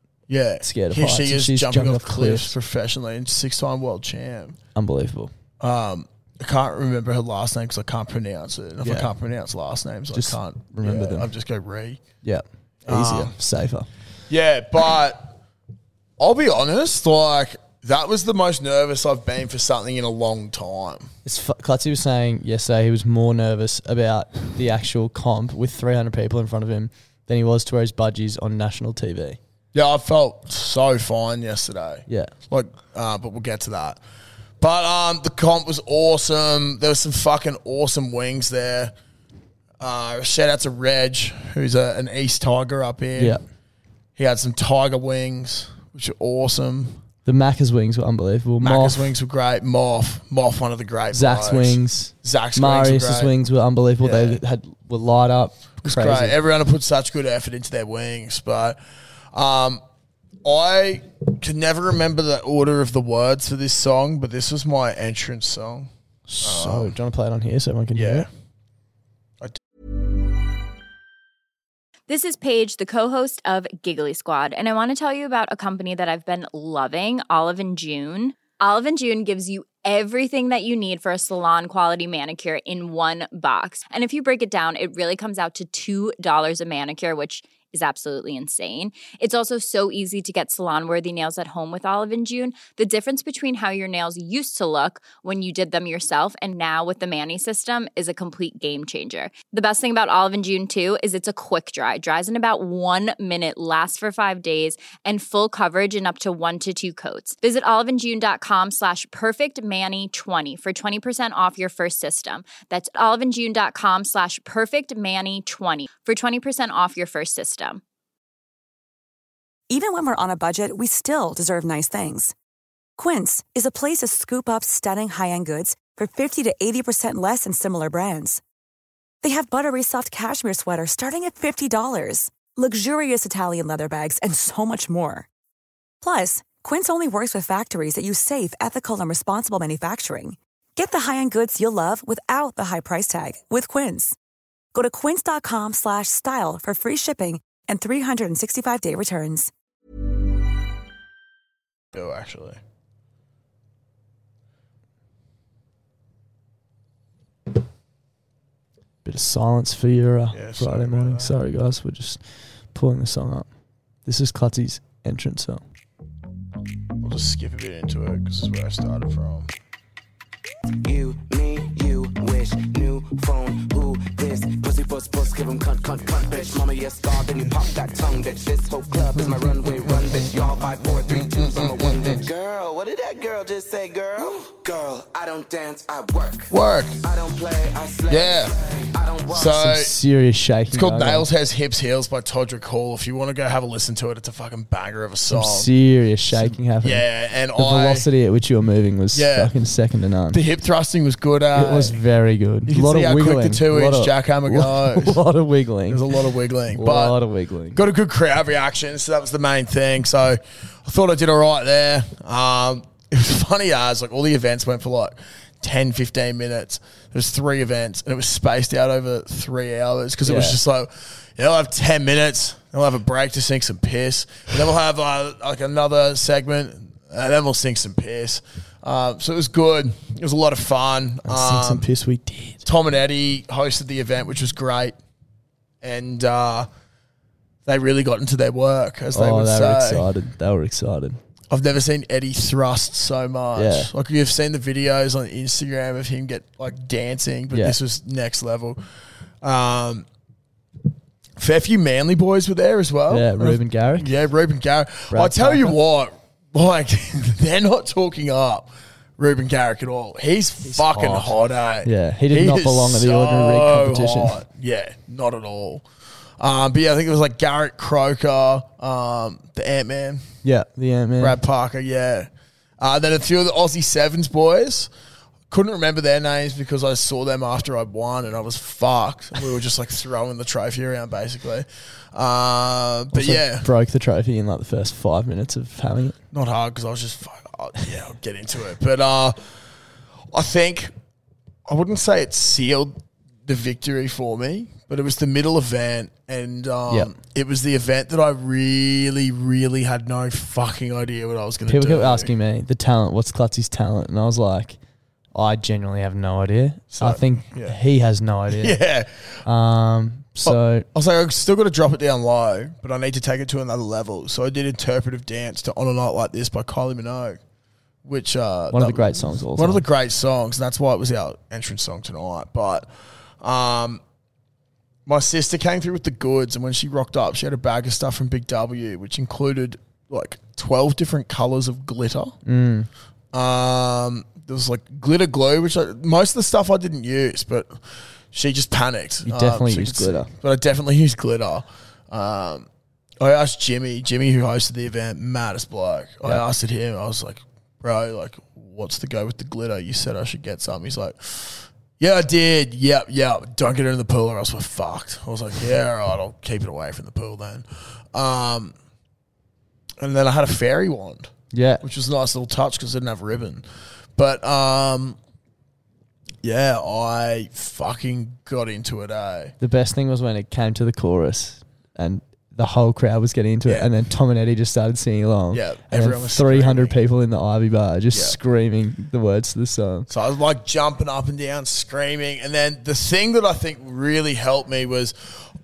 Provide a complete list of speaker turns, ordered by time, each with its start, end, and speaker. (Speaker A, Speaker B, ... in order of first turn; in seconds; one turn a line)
Speaker A: 0.3-4.6
Speaker B: 0.6-2.5
Speaker B: 4.7-5.3
Speaker A: 5.6-12.0
Speaker B: 8.8-9.1
Speaker B: 10.1-11.3
Speaker B: 12.2-13.9
Speaker A: 12.8-13.3
Speaker A: 14.3-15.3
Speaker A: 16.2-21.1
Speaker B: 21.2-29.4
Speaker A: 29.7-34.0
Speaker A: 34.6-38.9
Speaker A: 39.8-43.4
Speaker A: 44.1-47.0
Speaker B: 47.2-49.1
Speaker A: 48.6-53.3
Speaker B: 51.1-56.3
Speaker A: 54.0-54.4
Speaker A: 55.8-58.8
Speaker A: 59.3-59.8
Speaker A: 60.4-65.9
Speaker B: 66.3-68.2
Speaker A: 66.4-67.0
Speaker A: 67.9-68.3
Speaker C: 72.1-117.8
Speaker D: 119.7-122.3
Speaker D: 123.0-128.4
Speaker D: 129.2-135.3
Speaker D: 136.0-144.2
Speaker D: 144.7-149.5
Speaker A: 151.9-152.6
Speaker B: 159.0-162.2
Speaker A: 160.3-161.4
Speaker B: 162.7-163.5
Speaker B: 164.0-165.6
Speaker A: 167.0-169.5
Speaker E: 170.8-189.6
Speaker A: 186.5-187.0
Speaker A: 188.1-188.5
Speaker A: 189.3-189.9
Speaker B: 189.5-191.2
Speaker A: 190.7-195.7
Speaker B: 195.3-200.4
Speaker A: 196.3-198.1
Speaker A: 199.1-199.6
Speaker A: 200.3-202.0
Speaker B: 201.5-206.0
Speaker A: 202.7-205.2
Speaker A: 205.9-207.2
Speaker B: 206.7-207.8
Speaker A: 207.7-231.9
Speaker B: 220.2-220.6
Speaker B: 231.2-232.6
Speaker A: 232.6-235.0
Speaker A: 235.8-236.7
Speaker A: 237.7-240.1
Speaker B: 239.1-241.2
Speaker A: 241.5-248.8
Speaker B: 243.6-243.9
Speaker B: 247.5-247.8
Speaker A: 249.4-250.1
Speaker A: 251.4-265.8
Speaker B: 253.1-254.1
Speaker B: 255.1-255.8
Speaker B: 260.6-264.4
Speaker A: 266.4-270.3
Speaker B: 270.4-271.4
Speaker A: 271.2-272.3
Speaker A: 272.8-274.9
Speaker A: 275.5-283.7
Speaker B: 283.1-286.1
Speaker A: 286.3-289.4
Speaker A: 290.3-290.9
Speaker A: 291.7-302.3
Speaker B: 301.7-304.8
Speaker B: 305.3-308.8
Speaker A: 306.9-307.8
Speaker A: 308.5-309.4
Speaker B: 309.4-310.9
Speaker A: 310.4-317.4
Speaker A: 318.0-322.9
Speaker B: 318.7-319.8
Speaker A: 323.4-324.0
Speaker A: 325.1-332.4
Speaker B: 332.4-332.9
Speaker A: 333.3-337.7
Speaker A: 338.3-342.7
Speaker B: 339.2-340.3
Speaker A: 343.2-358.7
Speaker A: 360.0-363.6
Speaker B: 361.5-361.8
Speaker A: 364.2-365.2
Speaker A: 366.4-369.5
Speaker B: 369.6-380.1
Speaker A: 373.6-373.9
Speaker A: 375.5-377.0
Speaker A: 378.1-378.4
Speaker A: 380.1-385.1